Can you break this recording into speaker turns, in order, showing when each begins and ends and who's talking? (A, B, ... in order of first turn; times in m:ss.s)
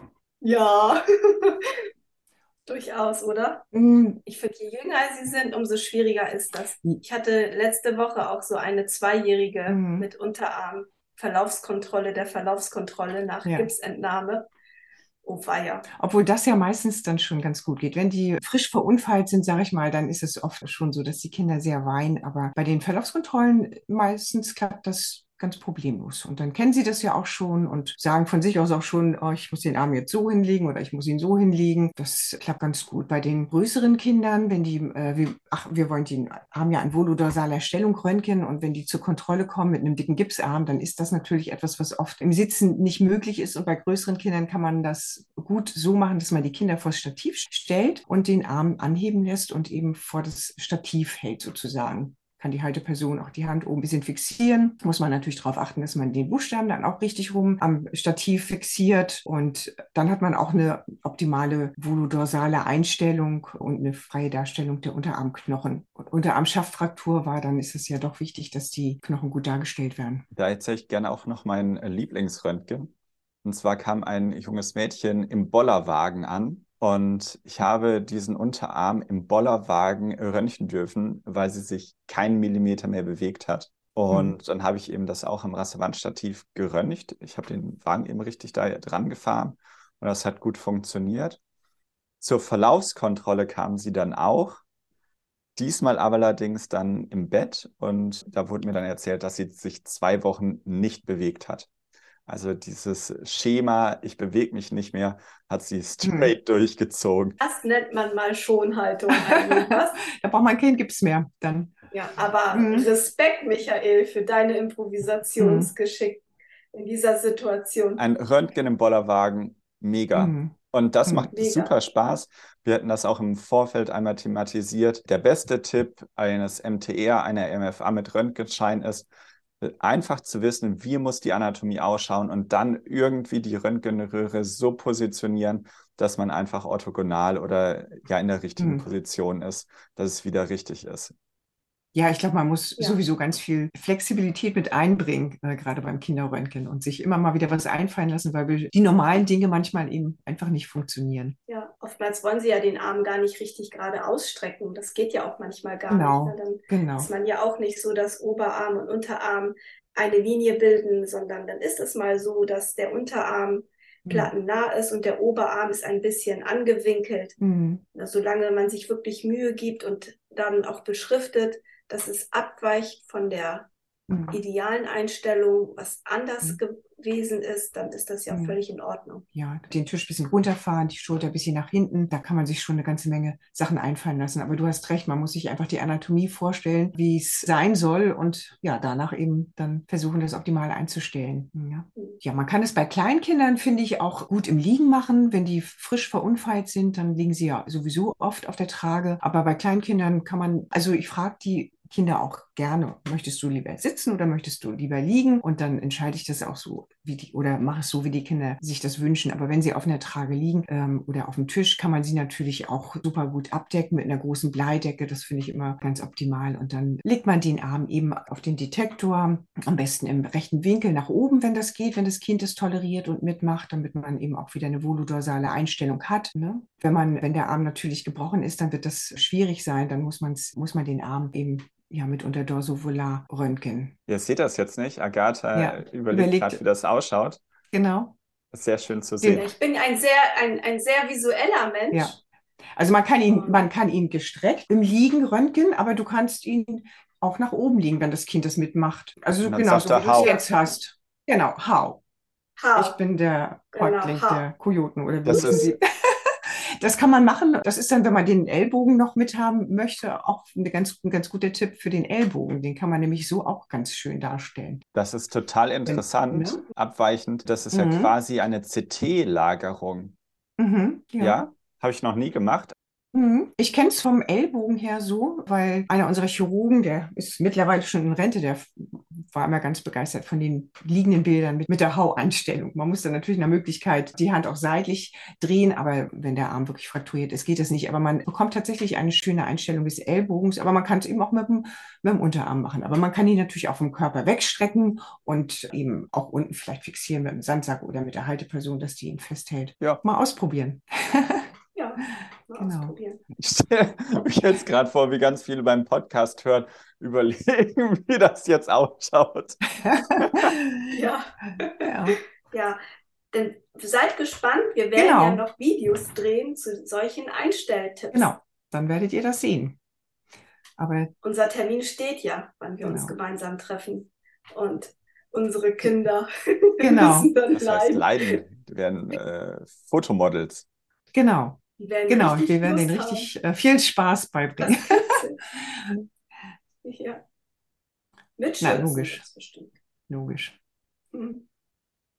0:00.4-0:01.7 A
0:02.7-0:03.6 A
0:03.7-0:04.2 B
0:04.2-0:14.5 A
0:09.7-0:10.1 B
0:13.4-0:13.7 B
0:15.2-0:15.9 A
0:15.9-1:10.2 B
1:10.3-1:12.9 C
1:13.4-1:31.4 C
1:32.2-1:34.6 C
1:35.6-1:41.7 C
1:42.3-1:47.4 C
1:46.0-1:46.3 B
1:47.4-1:50.0 A
1:49.2-1:51.7 B
1:51.9-1:58.0 A
1:52.5-1:52.9 B
1:55.4-1:55.7 B
1:58.0-2:09.1 C
2:00.1-2:00.5 B
2:01.0-2:01.3 B
2:01.3-2:01.7 A
2:09.6-2:21.1 C
2:18.6-2:18.8 B
2:21.9-2:31.4 B
2:31.5-2:47.4 A
2:35.9-2:37.1 B
2:44.0-2:44.3 B
2:47.4-2:47.8 B
2:47.9-2:53.7 A
2:54.1-2:54.4 B
2:54.3-2:59.2 A
2:58.3-2:58.6 B
2:59.3-3:53.9 B
3:54.1-3:57.4 C
3:55.5-3:56.6 B
3:57.7-3:58.1 B
3:58.5-3:59.5 C
3:59.3-4:02.2 A
4:01.9-4:02.2 B
4:02.7-4:12.0 B
4:03.3-4:03.6 A
4:09.4-4:10.3 C
4:10.0-4:10.4 A
4:12.6-4:13.0 A
4:12.8-4:24.8 B
4:13.7-4:14.4 A
4:15.2-4:15.6 C
4:15.3-4:15.7 A
4:24.9-4:30.1 C
4:25.8-4:26.6 B
4:27.7-4:28.1 B
4:30.6-4:31.4 B
4:31.2-4:32.7 C
4:33.1-5:01.5 B
5:01.7-5:03.2 A
5:02.6-5:02.9 B
5:03.4-5:10.5 C
5:09.8-5:10.9 B
5:10.9-5:11.9 A
5:11.8-5:12.2 B
5:12.5-5:12.8 A
5:13.3-5:18.3 A
5:14.9-5:15.4 B
5:18.1-5:19.8 B
5:20.8-5:21.1 B
5:21.2-5:28.4 A
5:22.8-5:23.2 B
5:26.8-5:27.3 B
5:27.5-5:30.6 C
5:31.1-5:36.0 B
5:31.8-5:33.3 A
5:34.6-5:35.4 A
5:36.8-5:37.2 A
5:38.4-5:39.7 A
5:38.6-5:39.2 B
5:40.1-5:40.6 B
5:41.1-5:41.4 A